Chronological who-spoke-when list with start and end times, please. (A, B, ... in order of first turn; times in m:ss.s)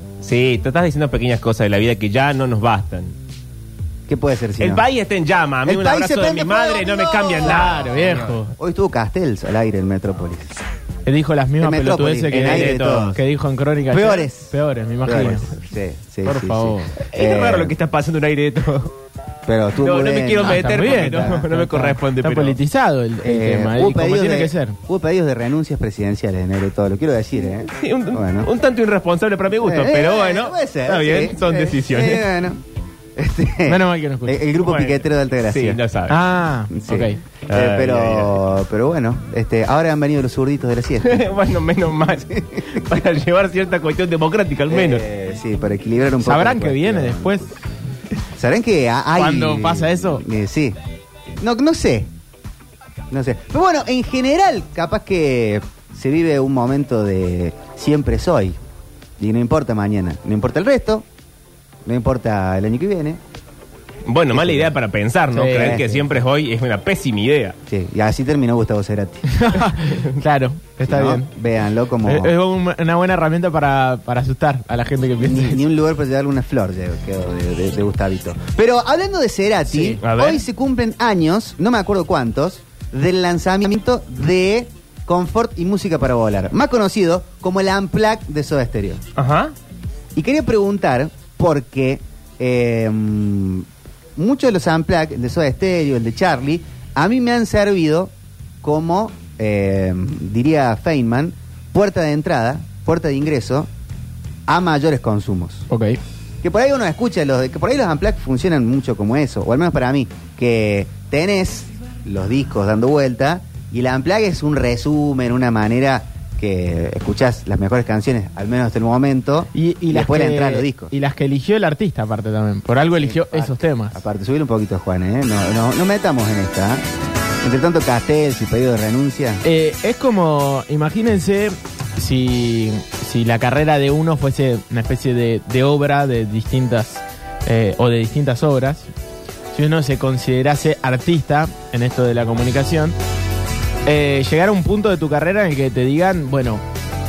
0:00.2-0:03.1 A
0:04.1-0:04.8 B
0:04.6-0:08.2 A
0:05.6-0:10.5 B
0:07.4-0:08.5 C
0:11.0-0:15.5 C
0:11.6-0:13.2 B
0:12.3-0:13.2 A
0:13.9-0:17.7 B
0:16.2-0:17.0 C
0:17.1-0:18.9 A
0:19.4-0:21.4 B
0:19.8-0:22.6 A
0:20.4-0:24.8 C
0:23.2-0:28.5 B
0:27.8-0:32.2 A
0:29.6-0:32.6 B
0:33.2-0:35.8 B
0:33.6-0:34.4 C
0:34.6-0:36.2 A
0:36.1-0:37.2 C
0:36.7-0:41.2 B
0:37.5-0:38.4 A
0:41.0-0:45.0 A
0:44.7-0:47.4 B
0:46.2-0:47.6 C
0:48.3-0:50.8 B
0:49.2-0:50.2 C
0:51.4-0:52.1 B
0:53.1-0:58.6 B
0:59.2-1:01.0 B
1:01.8-1:03.2 B
1:04.0-1:07.6 A
1:04.3-1:04.7 B
1:05.3-1:05.8 C
1:05.5-1:06.0 B
1:07.7-1:09.3 B
1:09.3-1:11.3 C
1:10.8-1:12.3 B
1:12.0-1:15.6 C
1:15.2-1:29.0 B
1:19.7-1:20.0 C
1:20.0-1:20.4 A
1:29.2-1:29.5 A
1:30.1-1:43.7 B
1:44.5-1:45.6 B
1:45.7-1:46.0 C
1:46.4-2:00.9 B
1:59.5-2:04.0 C
2:03.0-2:06.8 B
2:07.4-2:09.4 B
2:09.4-2:18.9 C
2:19.5-2:23.0 C
2:23.8-2:26.6 C